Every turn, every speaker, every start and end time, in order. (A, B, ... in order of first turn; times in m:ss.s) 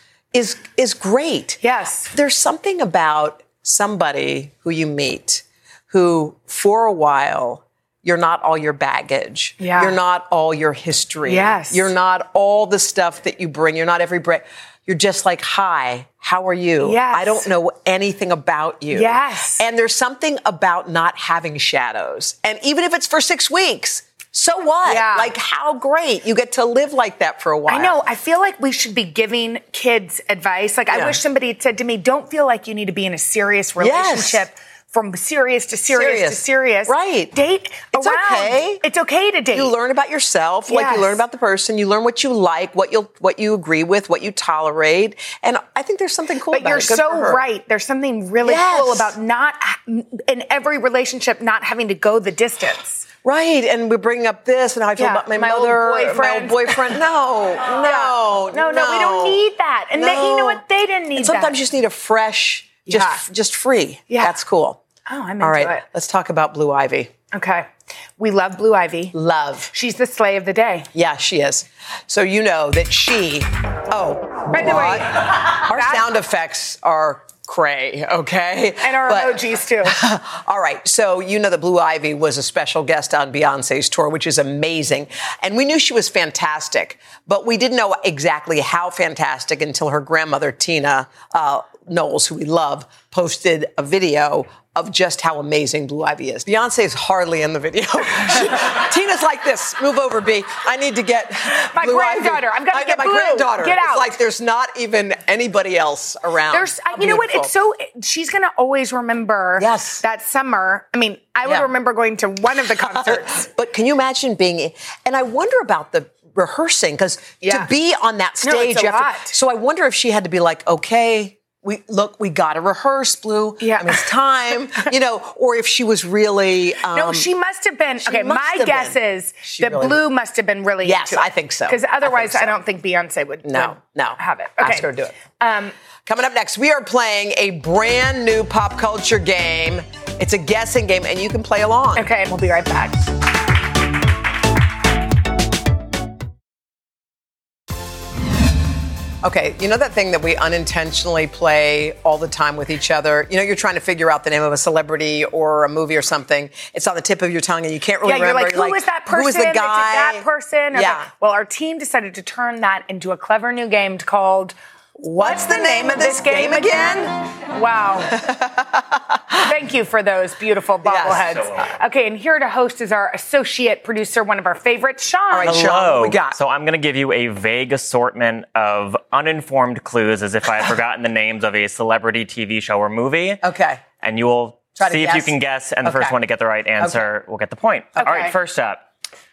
0:00.3-0:01.6 A
0:01.6-0:02.1 B
0:02.1-0:27.9 A
0:09.6-0:09.9 B
0:11.2-0:11.9 B
0:16.8-0:17.5 B
0:18.9-0:19.7 B
0:24.8-0:25.3 B
0:27.7-0:39.7 B
0:30.9-0:31.2 A
0:33.8-0:34.4 A
0:35.9-0:37.4 A
0:37.9-0:38.8 A
0:39.5-0:47.4 A
0:40.7-0:41.2 B
0:46.5-0:53.1 B
0:48.4-0:49.1 A
0:53.2-0:59.4 A
0:55.0-0:57.0 B
0:57.6-1:01.6 B
0:59.9-1:00.6 A
1:01.1-1:04.8 A
1:02.9-1:03.2 B
1:04.1-1:04.4 B
1:05.1-1:05.8 B
1:05.4-1:07.1 A
1:07.3-1:09.1 B
1:09.1-1:09.7 A
1:09.7-1:10.9 B
1:10.9-1:47.5 A
1:14.5-1:16.1 B
1:18.8-1:20.0 B
1:41.7-1:44.2 B
1:46.5-1:53.4 B
1:49.6-1:50.0 A
1:52.8-2:07.3 A
1:57.4-1:57.7 B
1:58.4-1:59.4 B
2:03.6-2:04.1 B
2:06.9-2:15.7 B
2:08.0-2:10.0 A
2:10.8-2:12.6 A
2:13.4-2:15.2 A
2:16.1-2:22.1 A
2:22.0-2:23.1 B
2:29.2-2:41.1 A
2:38.0-2:44.6 B
2:45.0-2:47.1 A
2:45.1-2:48.2 B
2:48.1-2:49.5 A
2:49.4-2:55.6 B
2:50.8-2:51.6 A
2:51.1-2:51.5 C
2:55.3-2:56.4 A
2:55.4-3:03.4 C
3:03.4-3:03.8 A
3:04.0-3:08.8 C
3:04.8-3:06.2 A
3:06.8-3:07.1 A
3:08.0-3:08.4 B